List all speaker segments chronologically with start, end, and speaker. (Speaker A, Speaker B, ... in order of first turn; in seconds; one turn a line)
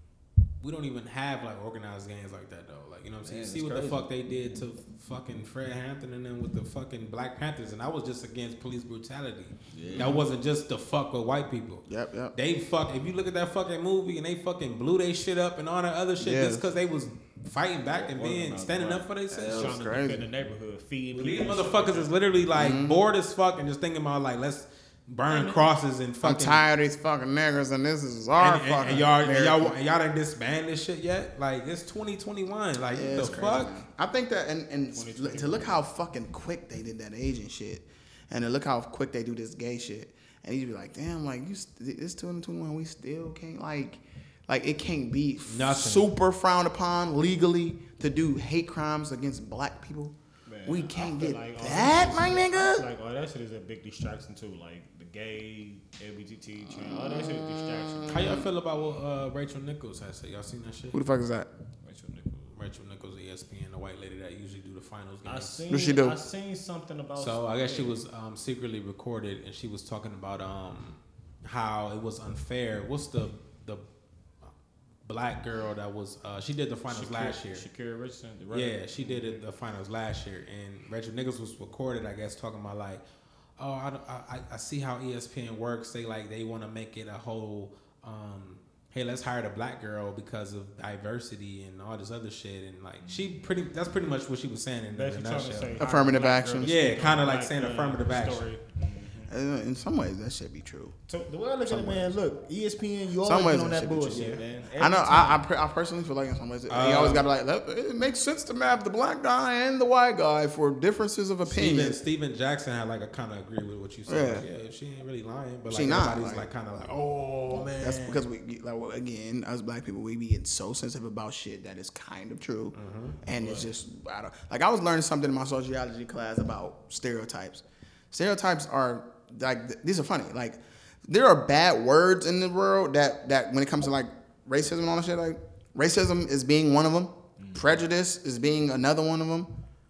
Speaker A: 0.6-19.8
Speaker B: 3.2-4.1
Speaker B: 9.7-10.2
Speaker C: 9.9-10.2
Speaker C: 11.9-12.4
Speaker C: 16.2-16.7
Speaker B: 17.9-22.1
Speaker C: 19.4-20.3
Speaker A: 21.1-26.6
Speaker C: 22.5-23.0
Speaker B: 25.3-25.7
Speaker C: 26.2-29.8
Speaker A: 28.4-33.7
Speaker C: 32.9-52.9
Speaker B: 34.9-35.8
Speaker A: 45.5-46.1
Speaker B: 50.5-58.4
Speaker C: 56.7-58.5
Speaker A: 58.1-61.0
Speaker C: 60.9-61.5
Speaker B: 61.8-62.5
Speaker A: 62.5-65.6
Speaker B: 65.2-68.0
Speaker C: 65.7-66.2
Speaker A: 67.2-73.8
Speaker A: 75.0-77.7
Speaker B: 76.9-79.4
Speaker A: 78.5-83.0
Speaker A: 83.6-95.8
Speaker B: 93.0-93.4
Speaker B: 94.9-99.3
Speaker C: 95.8-96.7
Speaker A: 96.6-98.4
Speaker C: 99.3-100.9
Speaker B: 101.1-105.4
Speaker C: 101.7-102.2
Speaker C: 103.2-112.0
Speaker A: 104.1-104.4
Speaker A: 106.7-107.2
Speaker A: 111.5-118.2
Speaker C: 114.1-114.5
Speaker C: 115.7-116.5
Speaker C: 117.8-139.5
Speaker A: 122.8-123.2
Speaker B: 123.3-123.7
Speaker B: 137.4-137.8